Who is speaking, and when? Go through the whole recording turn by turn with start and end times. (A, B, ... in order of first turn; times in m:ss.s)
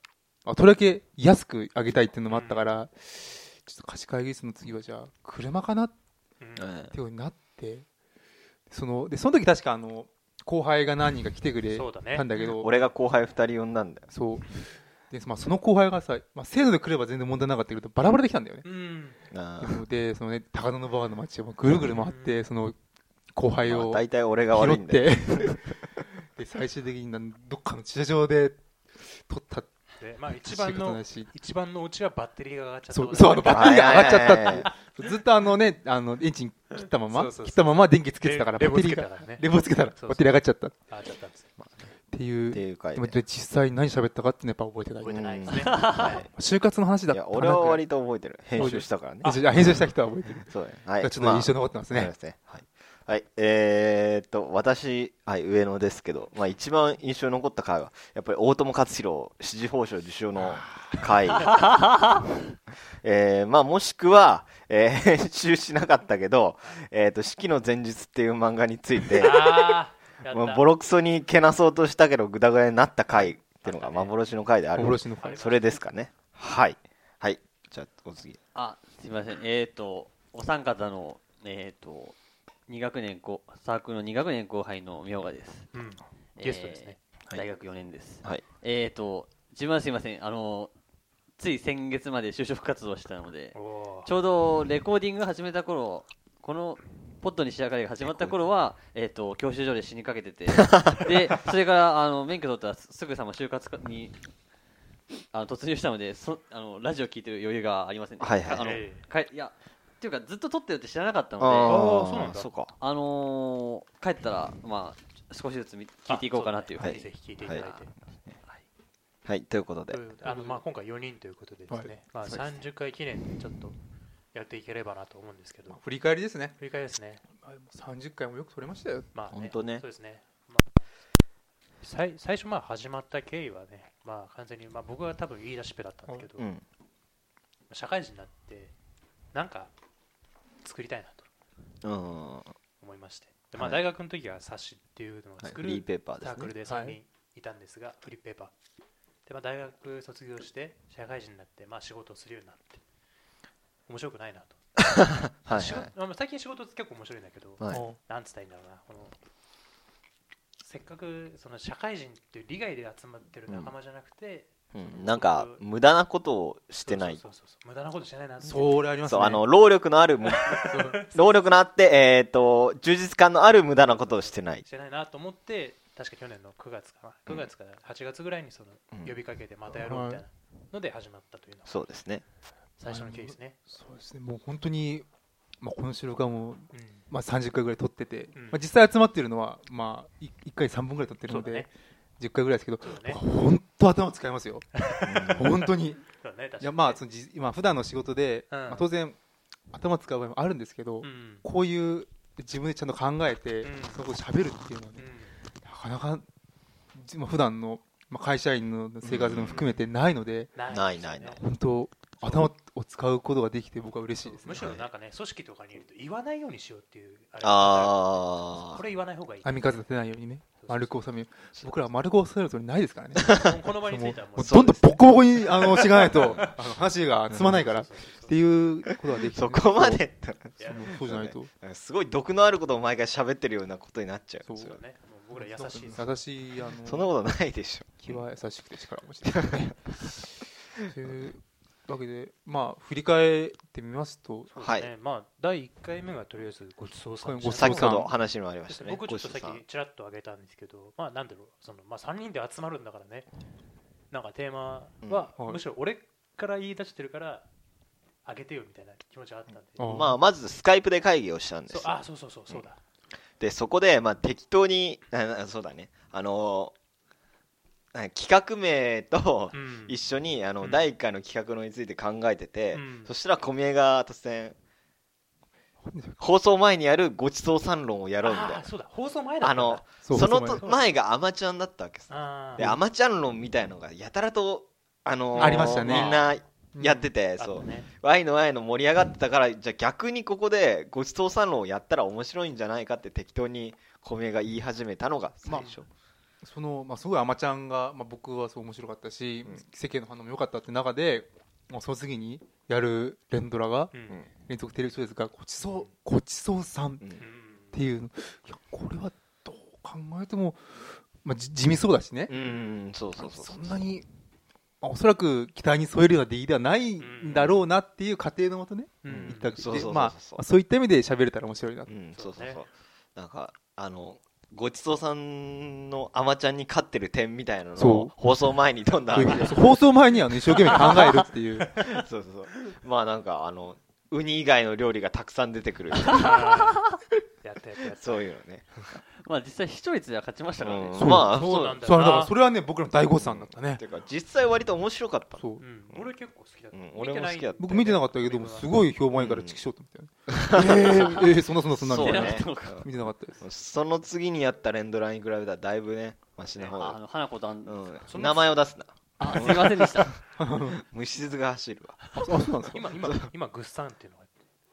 0:00.5-0:05.9 A
0:02.3-0:02.7 B
0:06.4-0:06.7 B
0:06.6-0:07.0 C
0:06.9-0:07.9 A
0:08.7-0:12.8 A
0:11.7-0:12.3 B
0:12.4-0:14.1 C
0:14.1-0:18.7 A
0:18.6-0:19.2 B
0:19.3-0:19.8 C
0:19.6-0:22.8 A
0:22.0-0:22.4 B
0:23.3-0:25.7 A
0:23.7-0:25.8 C
0:26.2-0:29.7 A
0:30.0-0:34.9 B
0:30.3-0:31.3 A
0:32.9-0:40.8 A
0:33.5-0:34.7 C
0:36.8-0:41.6 B
0:42.1-0:45.4 A
0:42.5-0:43.2 C
0:45.0-0:46.2 B
0:45.1-0:46.3 C
0:46.3-0:47.9 A
0:47.1-1:01.7 C
0:48.5-0:52.1 A
1:00.4-1:01.0 A
1:03.0-1:18.4 C
1:09.2-1:10.6 B
1:13.1-1:14.2 B
1:14.8-1:15.4 A
1:15.2-1:15.8 B
1:18.5-1:22.2 D
1:22.7-1:25.7 D
1:25.7-1:27.0 B
1:26.4-1:30.7 D
1:31.4-1:44.2 D
1:33.5-1:34.1 B
1:38.0-1:38.4 C
1:40.6-1:41.0 C
1:45.3-1:52.0 D
1:48.2-1:48.8 C
1:48.5-1:49.1 B
1:51.4-1:52.7 C
1:51.7-1:52.5 B
1:52.6-1:58.6 D
1:56.1-1:57.9 B
1:56.8-1:57.6 C
1:59.2-2:00.0 C
1:59.9-2:03.8 B
2:00.2-2:00.6 A
2:01.7-2:02.6 A
2:04.3-2:05.8 B
2:05.7-2:06.6 A
2:06.6-2:07.2 B
2:07.4-2:09.1 A
2:09.1-2:10.9 B
2:09.3-2:09.8 C
2:11.8-2:16.4 B
2:16.4-2:16.6 C
2:17.7-2:18.7 B
2:19.3-2:19.7 B
2:20.6-2:21.3 B
2:21.8-2:22.5 C
2:22.8-2:28.5 B
2:23.6-2:23.8 C
2:25.4-2:26.5 C
2:26.6-2:27.0 A
2:29.2-2:32.8 B
2:33.9-2:34.6 B
2:35.4-2:39.2 B
2:35.4-2:35.9 C
2:37.6-2:37.8 C
2:37.7-2:38.0 A
2:40.6-2:45.6 B
2:44.7-2:47.2 C
2:46.8-2:48.8 B
2:48.4-2:49.4 A
2:49.0-2:54.6 C
2:50.2-2:51.0 B
2:50.5-2:51.0 A
2:53.9-3:01.8 B
2:59.7-3:00.2 A
3:01.7-3:02.2 C
3:02.8-3:03.6 B
3:02.9-3:05.1 A
3:05.6-3:14.7 A
3:06.7-3:07.1 B
3:08.3-3:08.6 B
3:11.2-3:11.7 B
3:12.8-3:13.2 B
3:14.8-3:15.6 B
3:15.0-3:15.5 C
3:15.3-3:16.0 A
3:16.2-3:17.0 B
3:16.6-3:19.2 A
3:18.5-3:18.9 B
3:19.7-3:25.0 A
3:21.0-3:21.4 B
3:23.6-3:24.0 B
3:25.0-3:25.4 B
3:25.6-3:26.2 A
3:26.9-3:30.5 A
3:29.0-3:29.7 C
3:30.6-3:31.4 B
3:30.7-3:31.4 C
3:31.4-3:34.6 A
3:32.2-3:32.5 B
3:34.2-3:39.8 B
3:34.6-3:34.8 C
3:37.4-3:38.8 C
3:39.4-3:50.1 A
3:40.6-3:41.0 B
3:43.2-3:43.6 C
3:43.3-3:46.5 B
3:44.4-3:44.8 C
3:45.6-3:46.5 C
3:47.3-3:47.6 C
3:47.6-3:48.3 B
3:49.3-3:54.8 C
3:50.6-3:50.9 B
3:50.6-3:51.5 A
3:54.4-3:54.8 A
3:54.6-3:56.1 B
3:55.4-3:57.1 A
3:56.8-3:58.2 C
3:58.0-4:00.3 A
3:59.3-3:59.7 C
4:00.9-4:04.5 A
4:04.5-4:08.0 B
4:04.6-4:04.9 C
4:07.2-4:08.2 A
4:07.5-4:09.6 C
4:08.7-4:13.3 B
4:14.1-4:17.5 B
4:15.0-4:15.3 C
4:18.2-4:20.1 B
4:19.8-4:20.2 A
4:19.9-4:22.0 C
4:21.7-4:22.8 B
4:23.4-4:26.7 C
4:27.9-4:34.6 C
4:29.5-4:30.0 B
4:30.6-4:30.9 B
4:32.7-4:33.1 B
4:35.8-4:36.2 A
4:36.2-4:38.7 C
4:38.2-4:39.9 B
4:39.4-4:55.9 C
4:40.0-4:40.7 A
4:42.1-4:42.7 B
4:45.4-4:46.2 B
4:45.4-4:47.1 A
4:47.4-4:47.9 B
4:55.5-4:55.8 A
4:56.4-5:07.1 A
5:03.9-5:04.2 B
5:05.6-5:05.9 B
5:07.2-5:07.8 B
5:07.7-5:12.3 A
5:12.3-5:13.8 C
5:12.4-5:12.7 B
5:13.1-5:14.1 A
5:14.8-5:21.9 A
5:17.0-5:17.6 B
5:19.0-5:19.6 B
5:19.1-5:20.4 C
5:21.9-5:29.8 C
5:22.1-5:22.6 B
5:27.8-5:28.1 A
5:29.1-5:31.7 A
5:29.2-5:29.6 B
5:30.5-5:31.0 C
5:31.8-5:36.4 C
5:36.1-5:36.9 B
5:37.4-5:38.2 B
5:38.0-5:38.7 C
5:39.2-5:41.2 D
5:40.6-5:41.8 C
5:41.0-5:43.8 A
5:41.3-5:42.4 B
5:43.1-5:46.1 C
5:45.4-5:45.6 A
5:45.6-5:48.7 B
5:46.7-5:48.1 C
5:47.6-5:53.4 A
5:49.1-5:49.6 C
5:50.3-5:51.2 C
5:50.8-5:51.2 D
5:51.8-5:52.9 C
5:51.9-5:52.8 D
5:53.4-5:57.0 C
5:56.7-5:57.8 D
5:57.6-6:02.1 C
5:58.1-5:58.6 B
5:59.2-6:00.8 A
5:59.2-6:00.1 D
6:02.1-6:04.3 B
6:02.2-6:02.9 A
6:03.0-6:03.3 C